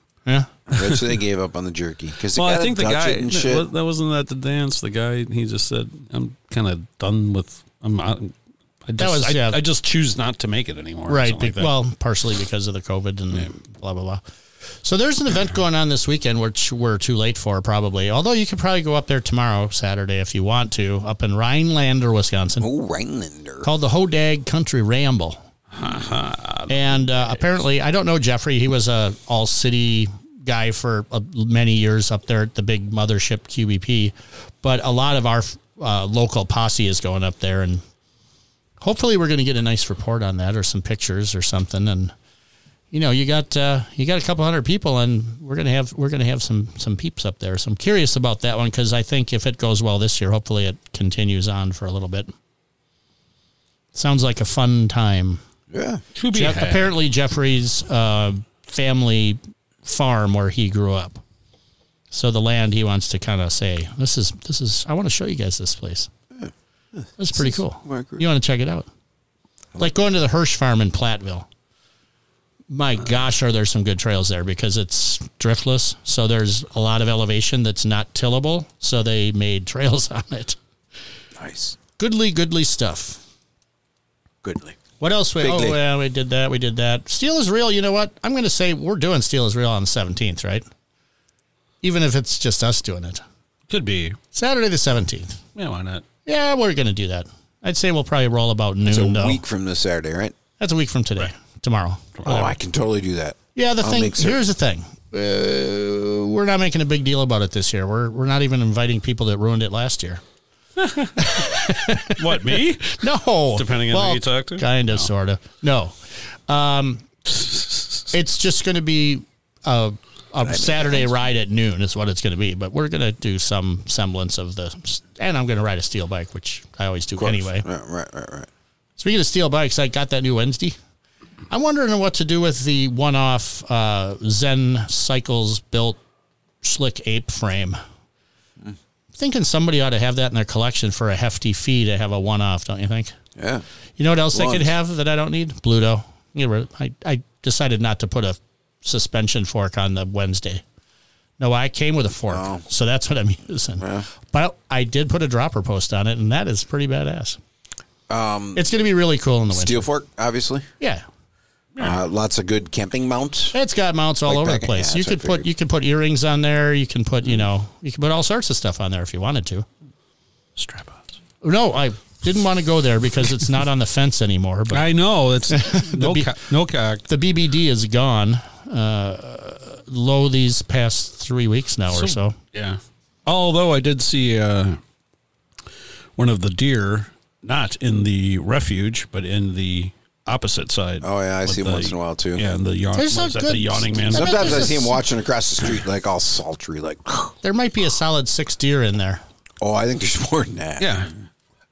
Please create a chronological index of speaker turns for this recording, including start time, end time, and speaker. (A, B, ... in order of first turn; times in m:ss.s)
0:00.7-0:03.7 A
0:00.7-0:01.0 B
0:02.3-0:08.3 B
0:08.8-0:11.7 B
0:09.0-0:09.6 C
0:11.1-0:14.2 C
0:14.8-0:22.7 C
0:22.6-0:23.7 A
0:23.6-0:25.4 C
0:25.7-0:26.7 B
0:26.7-0:37.8 C
0:38.8-0:42.1 C
0:42.9-0:52.3 C
0:53.9-0:55.4 C
0:55.7-0:56.0 A
0:56.1-0:56.9 B
0:56.3-1:01.2 C
1:02.1-1:06.1 C
1:06.3-1:08.2 A
1:07.2-1:08.9 C
1:09.8-1:11.5 C
1:12.7-1:20.6 C
1:21.4-1:21.8 A
1:22.0-1:23.2 C
1:24.4-1:24.8 A
1:25.0-1:30.6 C
1:25.4-1:25.8 A
1:31.8-1:33.2 C
1:33.7-1:34.2 B
1:34.3-1:35.4 C
1:35.5-1:36.0 B
1:36.2-1:39.4 C
1:38.8-1:40.3 A
1:40.6-1:42.5 C
1:42.2-1:42.5 B
1:42.2-1:44.4 A
1:43.5-1:50.2 C
1:50.8-1:53.0 B
1:51.2-1:55.9 C
1:53.5-1:55.1 B
1:56.5-1:57.0 C
1:57.3-1:57.9 B
1:58.1-2:07.6 C
2:00.4-2:01.0 A
2:07.2-2:08.5 A
2:09.0-2:10.8 C
2:11.5-2:16.0 C
2:16.6-2:17.8 C
2:19.2-2:23.1 C
2:23.4-2:23.6 A
2:24.0-2:30.6 C
2:24.3-2:24.7 A
2:31.4-2:37.4 C
2:32.3-2:32.6 A
2:33.8-2:34.1 A
2:38.1-2:38.6 A
2:38.5-2:39.9 C
2:39.5-2:40.7 A
2:41.8-2:43.5 A
2:43.5-2:49.6 C
2:44.2-2:45.5 A
2:50.6-2:51.1 B
2:51.4-2:54.8 C
2:54.7-2:57.0 B
2:55.5-2:56.4 C
2:57.1-3:02.4 C
3:01.9-3:04.8 B
3:06.2-3:14.8 B
3:11.0-3:12.4 A
3:13.0-3:15.0 C
3:14.1-3:17.3 A
3:17.4-3:19.2 C
3:19.6-3:21.1 A
3:20.8-3:21.1 B